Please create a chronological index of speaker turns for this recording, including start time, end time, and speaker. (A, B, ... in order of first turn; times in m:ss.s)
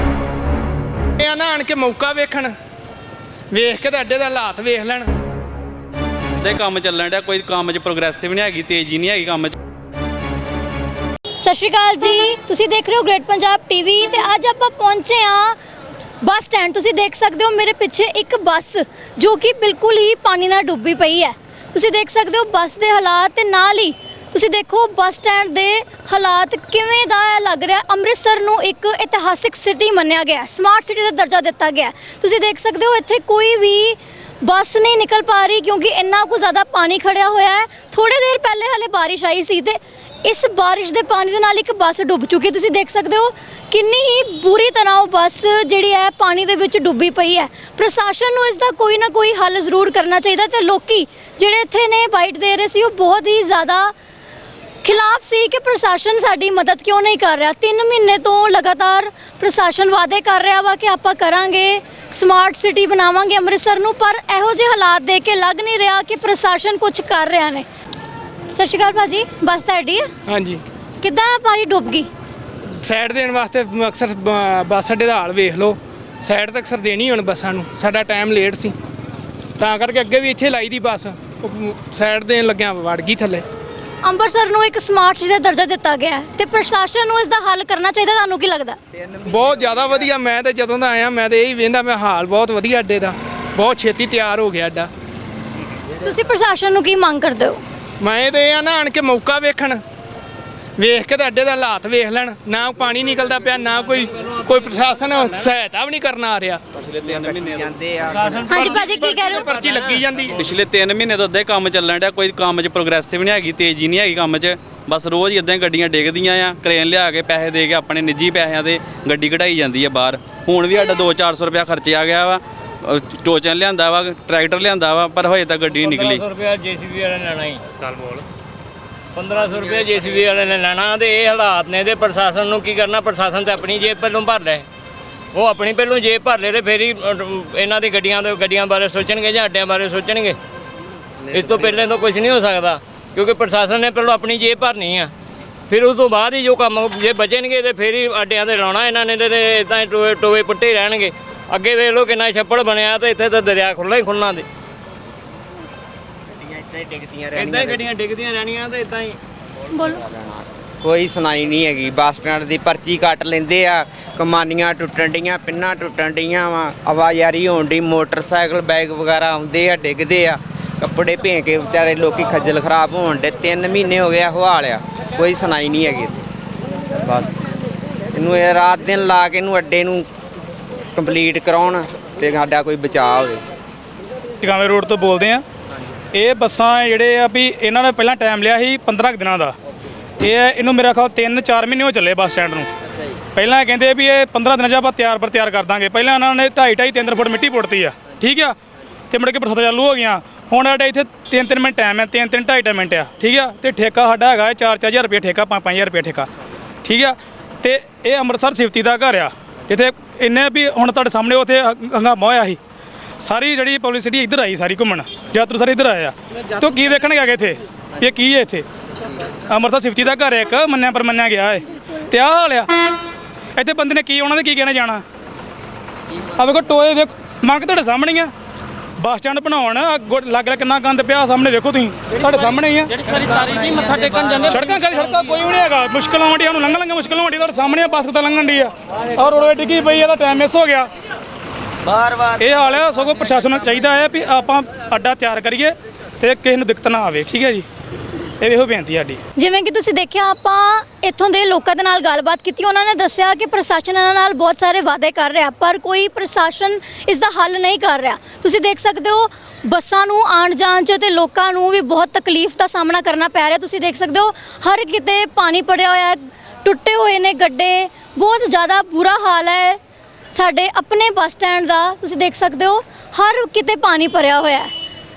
0:01.2-0:02.5 A
0:03.5-0:05.1 A
0:06.4-0:09.5 B
0:11.4-0:15.6 C
0:16.2-0:53.9 C
0:54.8-1:07.7 C
1:08.5-1:10.1 C
1:10.3-1:10.6 A
1:11.0-1:12.1 C
1:12.8-1:18.8 A
1:19.6-1:23.4 A
1:24.0-1:28.8 C
1:29.2-1:34.9 A
1:36.0-1:37.6 C
1:38.0-1:39.8 A
1:40.8-1:46.6 A
1:43.9-1:45.4 D
1:46.8-1:47.8 B
1:47.0-1:48.6 E
1:48.1-1:50.0 D
1:48.5-1:49.4 C
1:48.5-1:50.4 A
1:50.4-2:06.2 B
2:05.7-2:08.2 D
2:09.2-2:14.7 D
2:15.3-2:20.4 D
2:21.3-2:25.1 D
2:25.7-2:34.5 D
2:36.4-2:37.8 E
2:37.4-2:39.2 D
2:39.7-2:40.0 C
2:39.8-2:56.2 E
2:57.0-2:57.4 E
2:58.1-3:00.1 E
3:01.0-3:03.4 E
3:04.4-3:05.4 F
3:06.1-3:09.6 F
3:10.2-3:12.7 F
3:13.4-3:18.6 F
3:19.1-3:26.3 F
3:26.8-3:32.6 F
3:33.2-3:38.6 F
3:39.5-3:42.7 F
3:43.6-3:45.0 F
3:46.4-3:48.3 F
3:49.0-3:53.0 F
3:54.3-4:00.9 F
4:02.2-4:07.7 F
4:08.4-4:09.2 F
4:09.4-4:29.8 C
4:30.3-4:34.7 C